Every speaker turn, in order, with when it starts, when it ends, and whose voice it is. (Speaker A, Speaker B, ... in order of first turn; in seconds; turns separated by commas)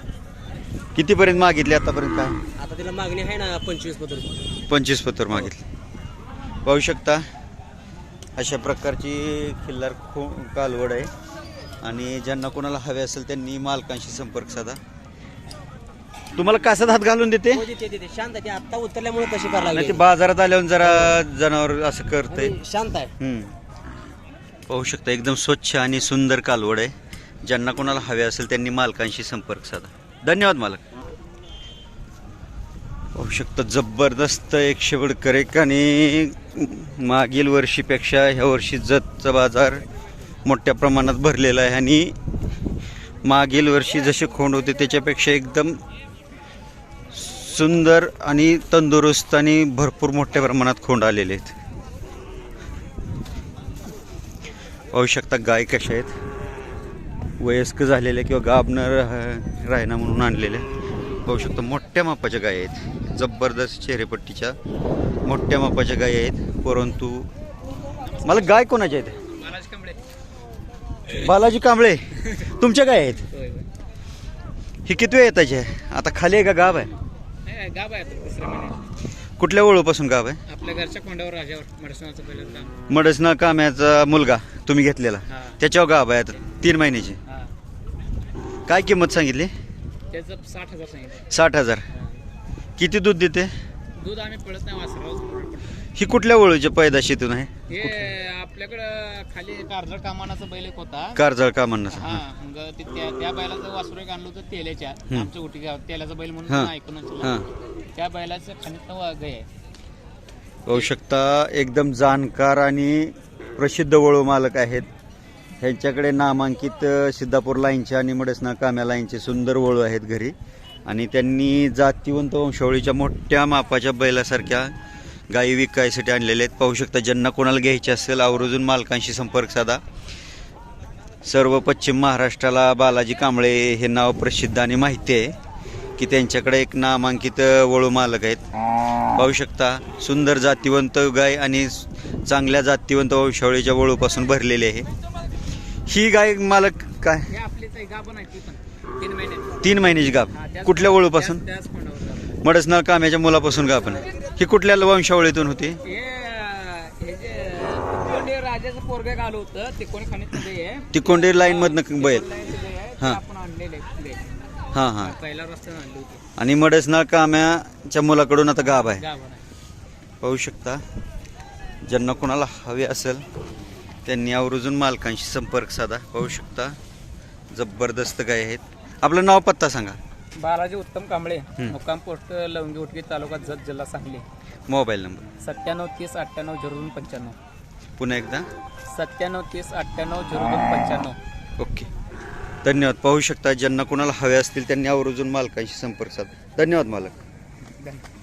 Speaker A: 0.9-2.4, Speaker B: 2.5-4.5, Speaker A: 4.7-5.6, Speaker A: 6.6-7.2, Speaker A: 8.4-11.1, Speaker A: 11.8-14.8, Speaker A: 16.4-17.7, Speaker B: 17.5-20.0, Speaker A: 19.7-22.5, Speaker B: 20.8-21.1, Speaker B: 22.3-23.1, Speaker A: 23.2-23.5, Speaker A: 24.7-26.9, Speaker A: 27.4-30.8, Speaker A: 33.1-39.8, Speaker A: 40.5-42.1, Speaker A: 43.2-45.8, Speaker A: 47.1-51.6, Speaker A: 54.9-56.1, Speaker A: 57.4-60.7, Speaker A: 61.2-64.6, Speaker A: 65.2-67.3, Speaker A: 68.2-69.2, Speaker C: 69.3-70.0, Speaker A: 71.1-73.2, Speaker C: 73.3-73.7, Speaker A: 74.8-76.9, Speaker C: 77.4-78.8, Speaker A: 79.4-80.4, Speaker C: 80.5-82.8, Speaker A: 82.9-87.2, Speaker C: 85.3-85.5, Speaker C: 87.3-87.5, Speaker A: 88.7-89.5, Speaker C: 90.1-91.3, Speaker A: 91.3-91.8, Speaker A: 92.8-93.5, Speaker C: 94.0-95.7, Speaker A: 96.0-98.1, Speaker C: 97.7-101.2, Speaker A: 101.1-102.2, Speaker C: 101.9-107.4, Speaker A: 106.5-107.5, Speaker C: 107.9-109.5, Speaker A: 110.7-114.9, Speaker A: 115.6-120.3, Speaker A: 120.9-124.7, Speaker A: 125.3-129.8, Speaker A: 131.2-135.3, Speaker A: 136.0-138.4, Speaker A: 139.1-144.9, Speaker A: 145.9-147.3, Speaker C: 147.3-149.7, Speaker A: 149.6-151.4, Speaker C: 150.3-152.4, Speaker A: 152.4-155.8, Speaker C: 155.8-164.3, Speaker A: 160.9-162.2, Speaker A: 164.7-165.2, Speaker C: 165.0-166.2, Speaker A: 166.4-169.1, Speaker C: 168.8-169.4, Speaker A: 170.2-170.8, Speaker A: 171.8-173.2, Speaker A: 174.0-176.8, Speaker A: 177.5-180.0, Speaker C: 180.4-184.2, Speaker A: 184.7-185.3, Speaker C: 185.4-187.4, Speaker A: 188.0-188.5, Speaker C: 188.9-191.2, Speaker A: 191.6-191.9, Speaker A: 192.6-197.2